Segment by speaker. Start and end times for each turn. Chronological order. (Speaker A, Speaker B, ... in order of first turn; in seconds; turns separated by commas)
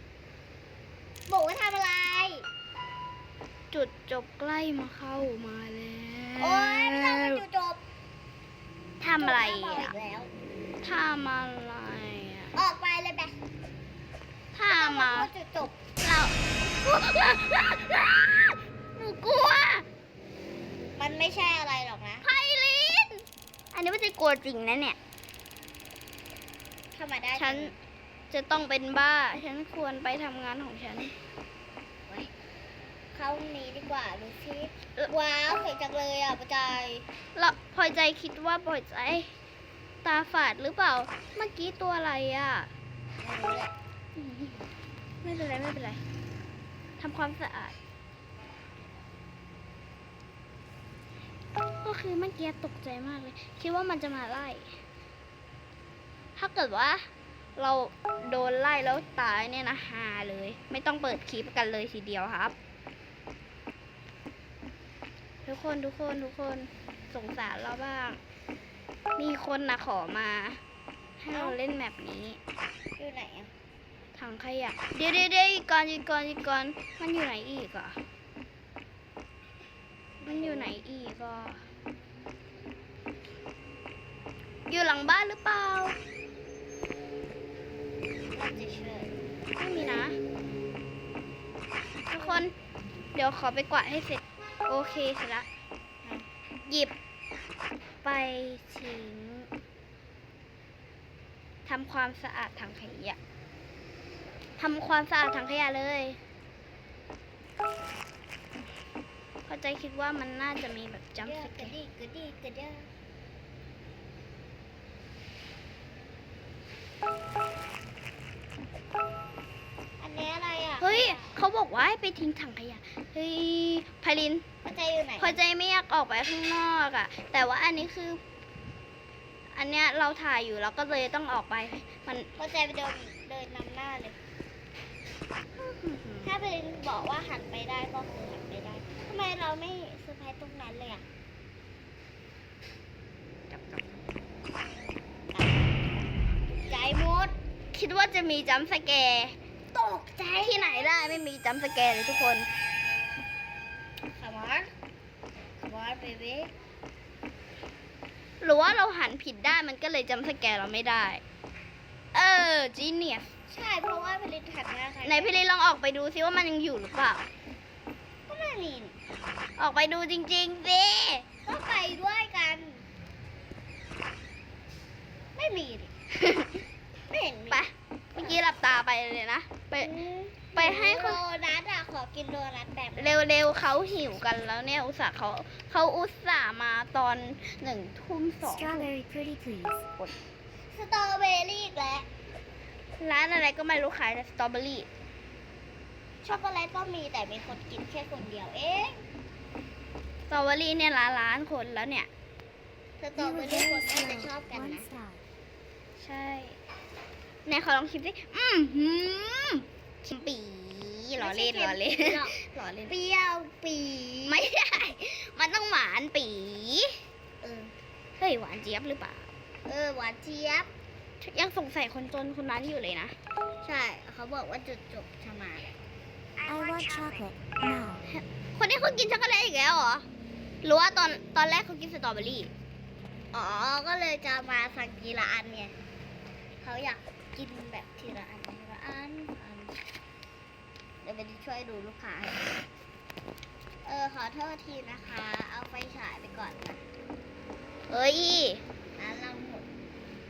Speaker A: 1.3-2.5, Speaker B: 3.7-7.4, Speaker A: 6.4-7.8, Speaker B: 9.0-9.9, Speaker A: 9.2-10.3, Speaker B: 10.8-12.5, Speaker A: 12.6-13.4, Speaker B: 14.5-15.3, Speaker A: 14.7-15.8, Speaker B: 16.0-19.9, Speaker A: 21.0-22.3, Speaker B: 22.2-23.2, Speaker B: 23.7-25.0, Speaker A: 26.9-27.7, Speaker B: 27.4-27.7, Speaker B: 28.3-31.1, Speaker A: 33.1-37.1, Speaker B: 37.4-39.3, Speaker B: 40.0-42.7, Speaker A: 43.2-43.7, Speaker B: 44.2-44.6, Speaker B: 45.2-46.0, Speaker B: 47.0-47.8, Speaker B: 51.8-54.7, Speaker B: 56.4-62.5, Speaker B: 65.5-68.2, Speaker B: 69.2-70.6, Speaker B: 71.2-72.4, Speaker A: 71.3-71.6, Speaker A: 73.0-73.5, Speaker B: 74.2-78.0, Speaker A: 80.2-80.8, Speaker B: 80.2-81.6, Speaker B: 84.7-86.0, Speaker A: 88.3-89.1, Speaker B: 89.6-90.2, Speaker A: 89.7-90.1, Speaker B: 92.1-92.5, Speaker A: 92.2-92.5, Speaker B: 93.2-95.5, Speaker B: 96.7-96.9, Speaker B: 98.0-99.5, Speaker B: 101.7-103.2, Speaker B: 104.6-106.2, Speaker B: 109.5-111.7, Speaker A: 111.2-112.9, Speaker A: 120.0-121.4, Speaker B: 120.8-124.4, Speaker A: 124.7-125.4, Speaker B: 125.2-128.2, Speaker B: 129.5-132.3, Speaker A: 132.4-134.2, Speaker B: 135.5-136.3, Speaker A: 136.2-141.1, Speaker B: 143.5-144.1, Speaker A: 145.3-146.0, Speaker A: 146.5-147.3, Speaker B: 147.7-149.3, Speaker A: 149.7-151.2, Speaker B: 150.4-152.5, Speaker A: 154.1-154.7, Speaker A: 155.6-156.5, Speaker B: 158.4-161.2, Speaker B: 162.1-163.3, Speaker A: 163.5-165.4, Speaker B: 165.0-167.3, Speaker A: 168.3-168.9, Speaker B: 169.6-171.3, Speaker A: 171.4-172.8, Speaker A: 175.4-175.9, Speaker B: 176.2-176.5, Speaker A: 177.1-177.7, Speaker B: 177.5-180.0, Speaker A: 179.8-183.2, Speaker B: 180.6-181.2, Speaker B: 183.0-188.9, Speaker C: 188.4-189.8, Speaker A: 190.7-192.1, Speaker B: 193.0-194.9, Speaker A: 196.2-199.0, Speaker B: 200.3-202.1, Speaker A: 203.0-204.9, Speaker C: 203.2-205.2, Speaker B: 206.0-206.6, Speaker B: 207.5-213.0, Speaker A: 211.2-212.3, Speaker A: 212.9-214.5, Speaker B: 214.3-216.9, Speaker A: 217.4-217.7, Speaker B: 218.2-219.3, Speaker A: 219.7-220.7, Speaker B: 221.2-223.2, Speaker A: 223.6-225.7, Speaker A: 226.4-227.2, Speaker C: 226.5-228.1, Speaker B: 228.1-230.1, Speaker B: 230.6-232.5, Speaker A: 233.3-235.7, Speaker A: 236.6-239.8, Speaker A: 241.0-242.4, Speaker A: 243.8-246.8, Speaker B: 247.9-248.6, Speaker A: 249.0-249.7